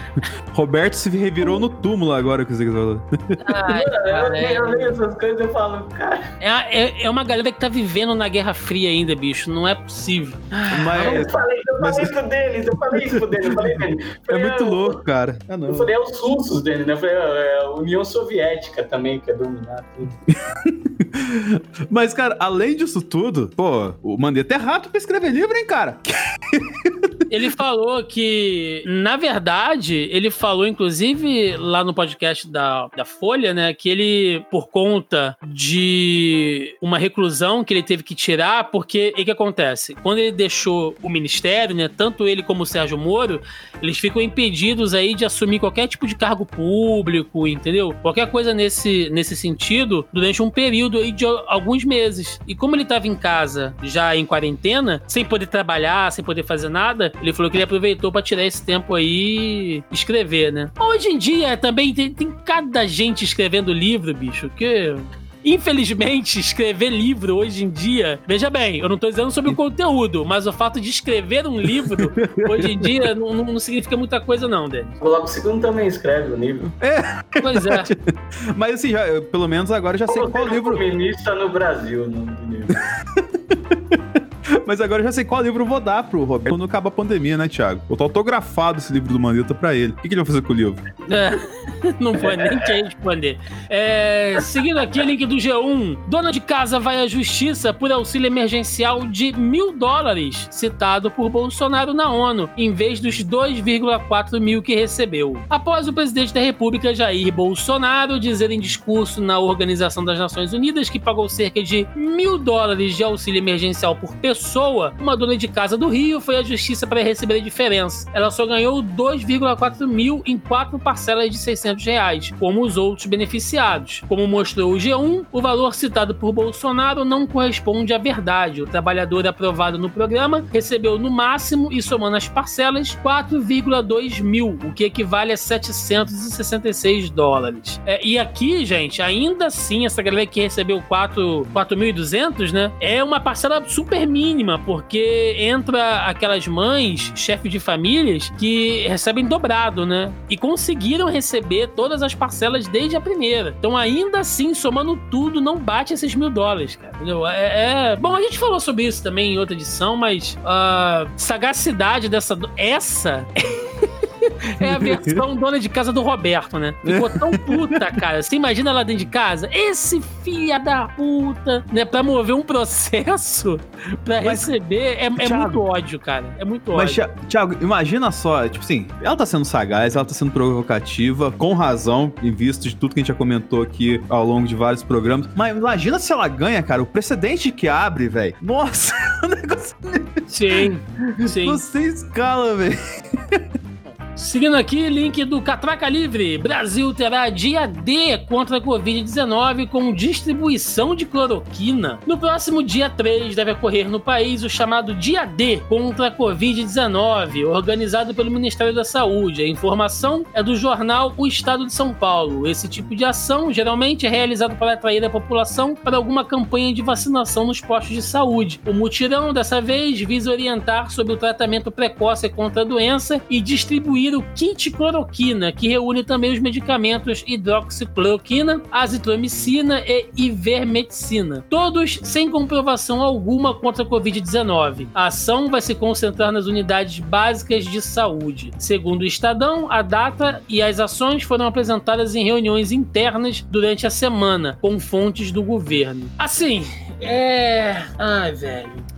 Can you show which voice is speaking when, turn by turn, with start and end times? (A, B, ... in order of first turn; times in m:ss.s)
0:00.5-0:03.4 A
0:03.4-0:04.9 B
0:03.7-0:06.3 C
0:06.4-0:11.0 B
0:10.7-0:12.1 A
0:10.9-0:15.0 C
0:12.9-0:15.9 A
0:15.7-0:20.2 C
0:20.5-0:27.1 A
0:27.3-1:15.0 B
1:11.8-1:13.0 A
1:15.0-1:16.7 C
1:16.8-1:20.8 A
1:17.4-1:17.9 B
1:20.1-1:22.8 C
1:23.1-1:24.0 A
1:24.6-1:30.8 A
1:31.1-2:57.0 B
1:32.3-1:32.7 C
2:44.6-2:45.2 A
2:46.8-2:48.0 A
2:54.2-2:54.5 A
2:55.2-2:55.6 A
2:56.7-3:13.4 A
3:10.3-3:11.6 B
3:14.2-4:08.9 B